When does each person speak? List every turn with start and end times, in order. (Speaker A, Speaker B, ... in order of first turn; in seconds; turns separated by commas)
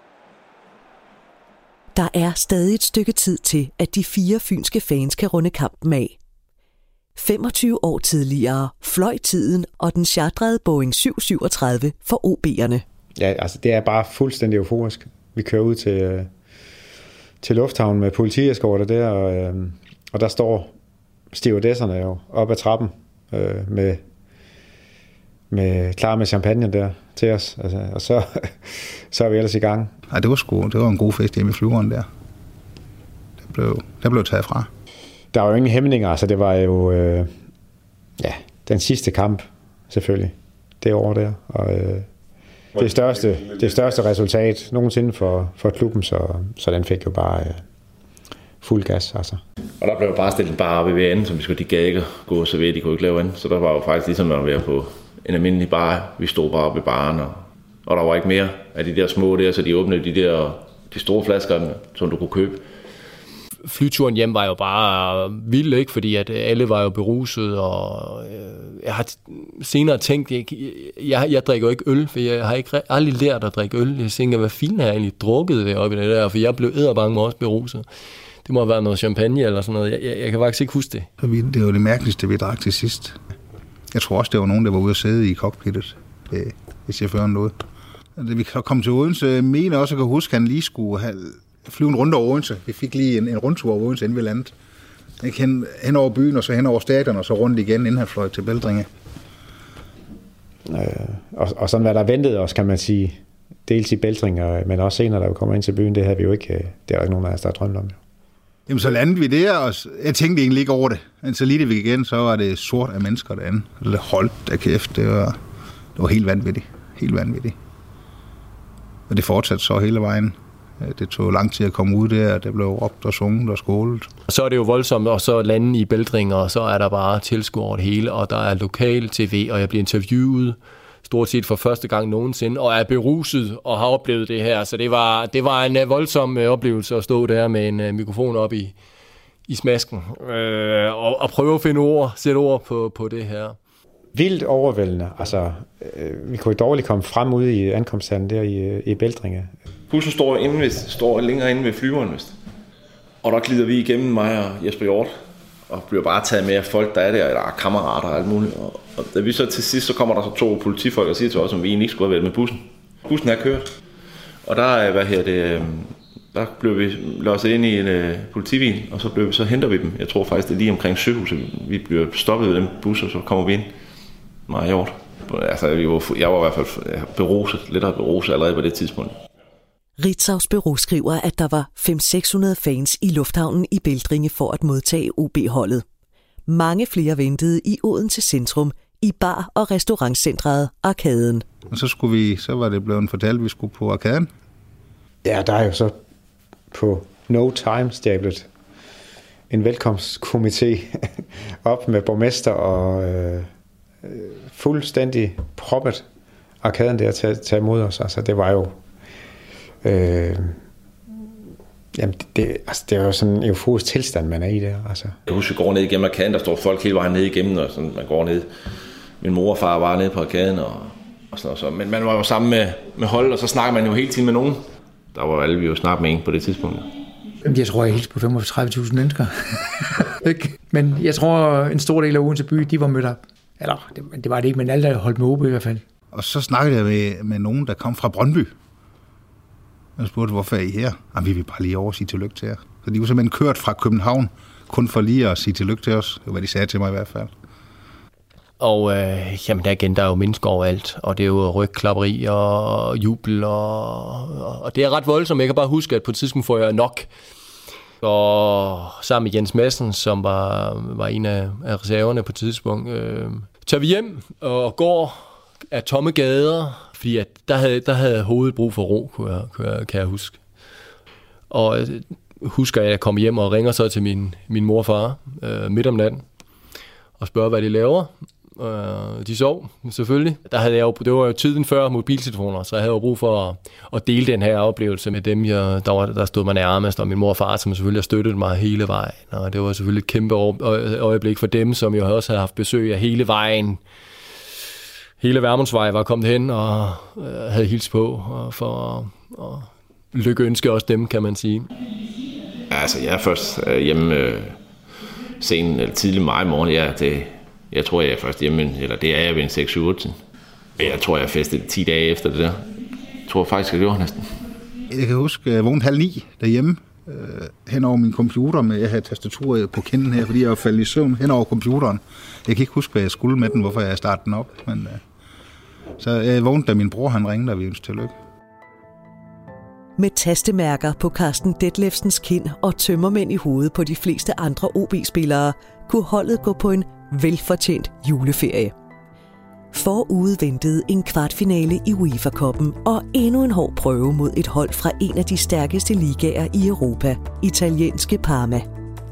Speaker A: 1.9-6.2, Speaker A: 7.2-12.8, Speaker B: 13.2-16.3, Speaker B: 17.4-20.7, Speaker B: 21.3-24.0, Speaker B: 25.5-29.9, Speaker C: 30.1-32.1, Speaker C: 33.4-34.7, Speaker B: 35.3-37.3, Speaker B: 38.2-42.1, Speaker B: 42.7-47.6, Speaker B: 48.6-49.4, Speaker D: 49.8-62.6, Speaker E: 63.6-77.8, Speaker E: 78.4-81.1, Speaker C: 81.2-83.2, Speaker C: 83.9-87.5, Speaker C: 88.2-94.5, Speaker C: 95.2-98.9, Speaker B: 100.7-108.0, Speaker C: 108.7-115.4, Speaker C: 115.9-117.5, Speaker C: 119.1-124.1, Speaker E: 124.3-138.7, Speaker E: 139.5-143.6, Speaker B: 144.1-149.5, Speaker D: 149.9-152.4, Speaker D: 153.2-155.1, Speaker D: 155.7-163.7, Speaker D: 164.4-173.7, Speaker D: 174.5-179.1, Speaker A: 180.0-185.8, Speaker A: 186.5-191.4, Speaker C: 191.7-194.3, Speaker B: 195.2-195.9, Speaker B: 196.7-198.5, Speaker B: 199.5-203.5, Speaker B: 204.0-206.0, Speaker B: 206.6-208.8, Speaker B: 209.8-210.6, Speaker B: 211.9-215.1, Speaker D: 215.2-218.5, Speaker D: 219.2-226.9, Speaker F: 227.4-235.8, Speaker C: 236.1-238.5, Speaker C: 240.0-247.3, Speaker E: 248.6-257.1, Speaker E: 258.0-270.4, Speaker E: 271.5-276.2, Speaker E: 277.2-293.8, Speaker E: 295.2-301.7, Speaker D: 302.7-304.6, Speaker D: 305.4-310.2, Speaker D: 310.8-312.6, Speaker D: 313.3-314.4, Speaker C: 314.9-325.0, Speaker C: 326.0-328.1, Speaker A: 330.0-338.7, Speaker A: 339.7-348.7